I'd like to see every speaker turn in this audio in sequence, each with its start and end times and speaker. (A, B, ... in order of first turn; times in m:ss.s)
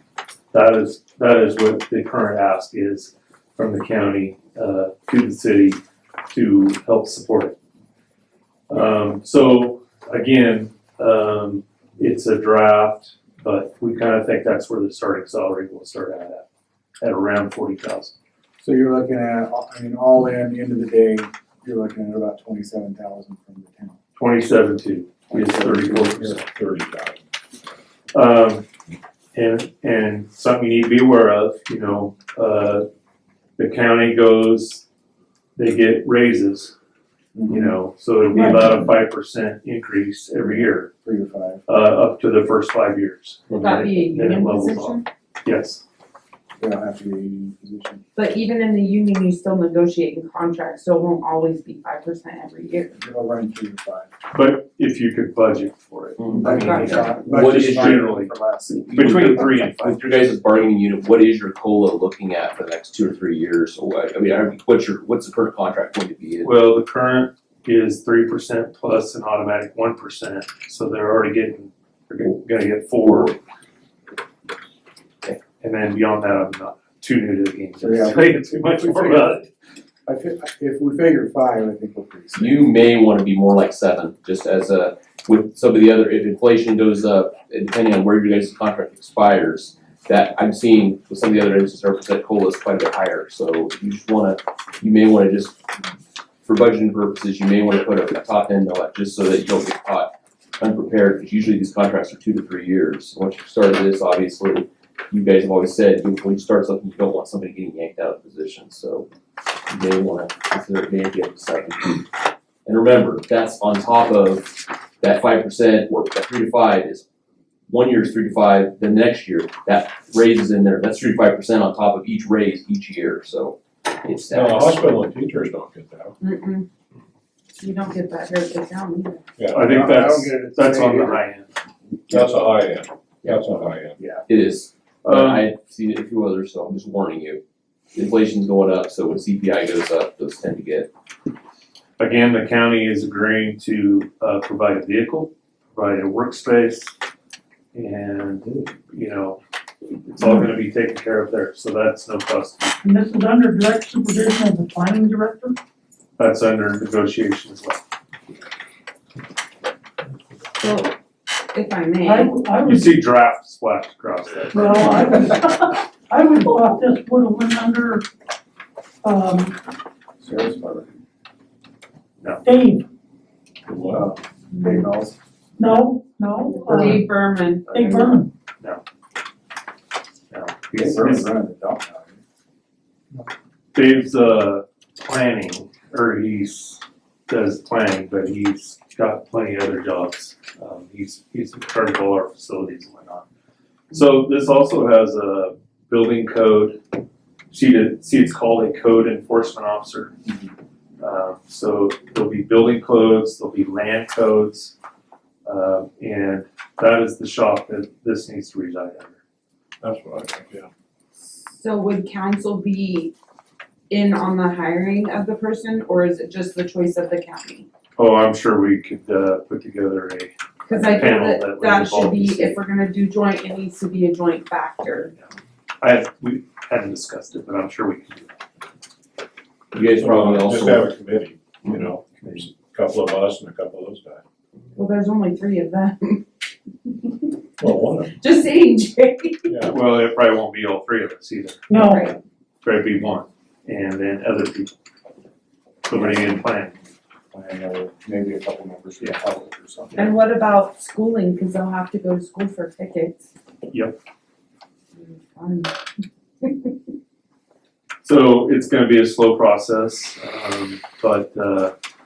0:00.5-0:05.8 A
0:06.3-0:07.6 A
0:08.7-0:16.4 A
0:17.0-0:18.1 A
0:18.6-0:24.0 B
0:24.2-0:26.4 A
0:25.3-0:25.9 B
0:25.8-0:27.3 C
0:28.1-0:28.6 A
0:29.3-0:32.9 A
0:33.6-0:34.8 A
0:35.6-0:36.8 A
0:37.3-0:37.8 B
0:37.5-0:40.9 A
0:38.3-0:38.8 D
0:40.4-0:41.6 B
0:41.6-0:45.8 A
0:43.6-0:45.0 E
0:46.6-0:48.0 B
0:48.2-0:52.9 E
0:52.9-0:54.1 B
0:54.3-0:58.3 A
0:56.2-0:58.2 F
0:56.4-0:59.5 B
0:56.5-0:57.1 E
0:58.9-1:06.7 F
0:58.9-1:00.3 A
1:06.4-1:13.4 A
1:13.0-1:13.3 F
1:15.6-1:19.5 A
1:17.8-1:19.4 B
1:20.0-1:22.6 B
1:22.4-1:35.6 F
1:36.4-1:49.1 F
1:49.7-1:52.1 F
1:52.6-1:57.0 F
1:57.7-2:05.0 F
2:04.3-2:06.1 C
2:06.2-2:06.7 E
2:07.6-2:09.3 E
2:09.4-2:09.7 C
2:09.5-2:11.2 B
2:09.5-2:11.5 A
2:12.1-2:14.0 C
2:13.2-2:13.6 F
2:14.0-2:14.2 B
2:14.2-2:17.4 F
2:15.0-2:15.5 A
2:17.9-2:20.9 F
2:22.0-2:26.9 A
2:27.7-2:32.7 A
2:32.8-2:35.6 D
2:36.2-2:37.8 A
2:40.6-2:40.9 E
2:41.5-2:42.4 E
2:42.0-2:43.0 D
2:42.6-2:45.0 A
2:44.5-2:48.0 D
2:49.0-2:49.6 D
2:50.2-2:50.9 B
2:52.4-2:52.8 D
2:53.7-2:54.1 C
2:53.9-2:55.2 B
2:54.6-2:54.8 E
2:55.6-2:57.1 D
2:56.5-2:58.2 E
2:57.7-2:58.3 D
3:00.3-3:01.3 A
3:00.8-3:02.2 B
3:03.7-3:13.2 A
3:13.9-3:16.8 A
3:17.5-3:20.1 A
3:21.0-3:24.7 A
3:25.4-3:29.2 A
3:29.8-3:30.7 C
3:31.2-3:33.1 E
3:33.9-3:37.7 E
3:38.0-3:42.6 A
3:40.6-3:45.1 E
3:45.8-3:48.4 A
3:49.7-3:50.9 F
3:49.8-3:54.2 C
3:54.7-3:56.2 E
3:56.8-3:57.3 E
3:57.6-3:58.1 C
3:58.0-3:59.6 E
3:59.5-3:59.8 C
3:59.6-4:01.8 A
4:01.7-4:02.0 D
4:01.7-4:02.2 E
4:02.6-4:04.8 A
4:05.9-4:06.8 A
4:05.9-4:06.4 B
4:07.3-4:10.1 B
4:10.0-4:13.3 E
4:13.7-4:14.0 A
4:14.9-4:15.7 E
4:16.4-4:16.7 E
4:18.0-4:21.7 A